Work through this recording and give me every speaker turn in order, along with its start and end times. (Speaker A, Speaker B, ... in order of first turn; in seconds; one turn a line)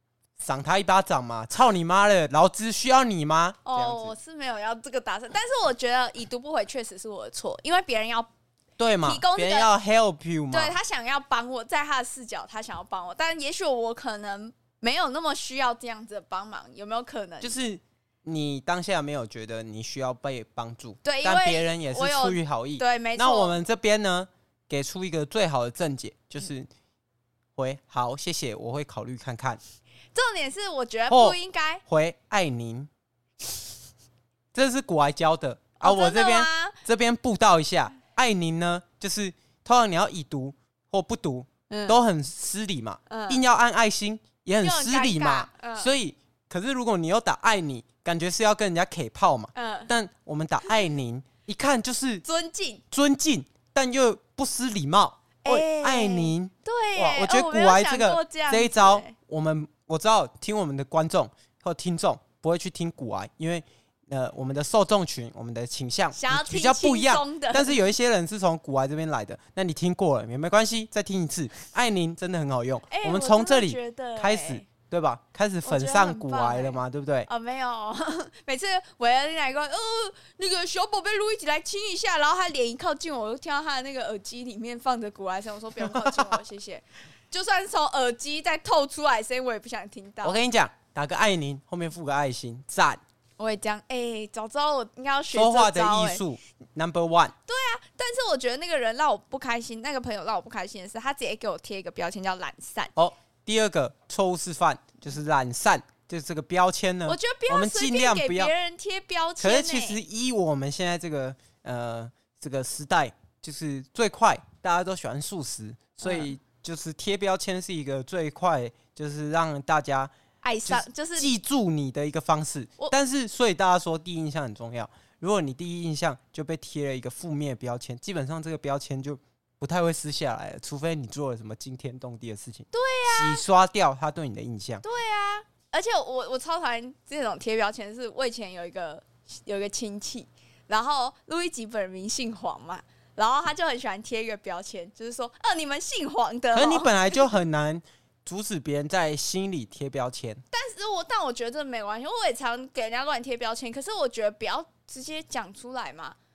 Speaker A: 0.4-4.1
Speaker B: 3.6-8.3
Speaker A: 8.8-10.8
Speaker B: 9.0-9.7
Speaker B: 10.5-17.6
Speaker A: 17.4-26.7
Speaker B: 21.0-23.5
Speaker A: 27.6-29.6
Speaker B: 30.1-31.8
Speaker A: 31.1-32.9
Speaker A: 34.5-52.2
Speaker B: 35.8-36.8
Speaker B: 41.7-42.0
Speaker B: 43.1-43.4
Speaker B: 44.6-45.9
Speaker B: 49.5-49.9
Speaker B: 52.2-52.8
Speaker A: 52.9-77.3
Speaker B: 55.4-59.1
Speaker B: 66.1-67.8
Speaker B: 72.9-74.7
Speaker B: 75.6-90.4
Speaker A: 85.8-86.4
Speaker A: 90.2-93.0
Speaker B: 93.4-96.2
Speaker A: 95.3-97.3
Speaker B: 97.5-102.9
Speaker A: 103.0-108.5
Speaker B: 107.1-110.0
Speaker A: 109.4-120.1
Speaker B: 116.0-116.3
Speaker B: 120.4-121.3
Speaker A: 120.7-134.8
Speaker B: 132.7-133.4
Speaker B: 134.8-146.9
Speaker A: 146.5-150.4
Speaker B: 150.5-156.2